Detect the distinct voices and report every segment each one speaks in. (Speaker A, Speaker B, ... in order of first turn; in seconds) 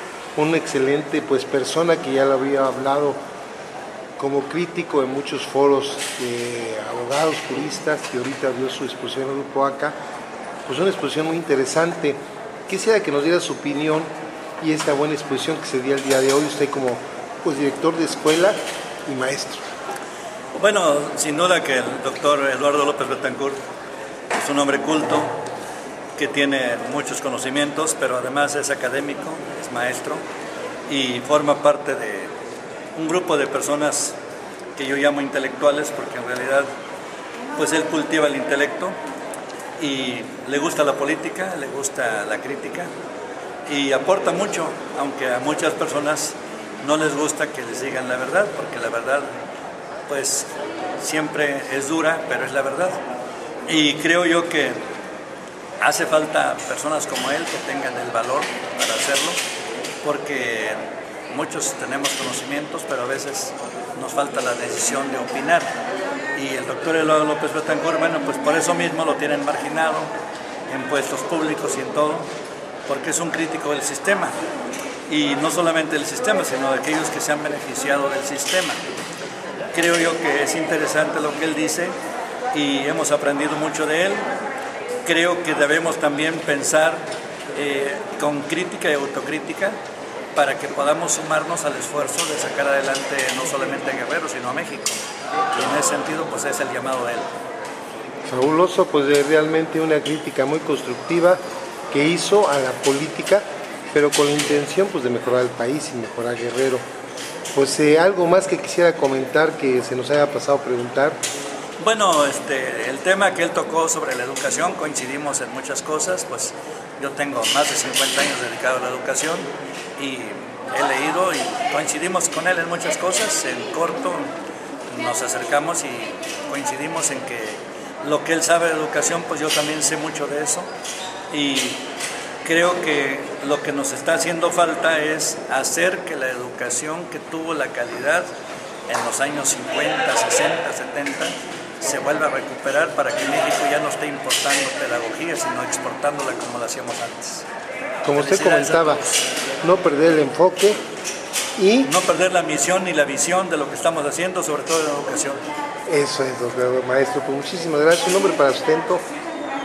Speaker A: 0.3-3.2, 4.2-9.9, 10.7-14.1, 14.6-19.6, 98.3-106.8, 107.5-111.2, 148.0-149.0, 149.6-150.8, 151.6-151.9, 155.9-159.0
Speaker B: 20.5-23.6, 24.3-25.3, 26.2-30.2, 30.9-32.3, 32.9-34.1, 34.8-36.7, 37.5-39.0, 39.8-42.9, 43.7-49.3, 50.1-50.5, 51.0-53.0, 53.7-54.8, 55.8-59.4, 60.0-65.7, 66.3-70.1, 70.7-72.3, 72.9-74.3, 75.1-78.8, 79.7-81.9, 82.5-84.2, 85.0-87.0, 87.5-89.8, 90.3-95.0, 95.5-97.3, 111.8-124.3, 124.9-130.7, 131.3-131.8, 132.4-138.3, 138.9-147.4, 148.2-149.1, 151.8-155.4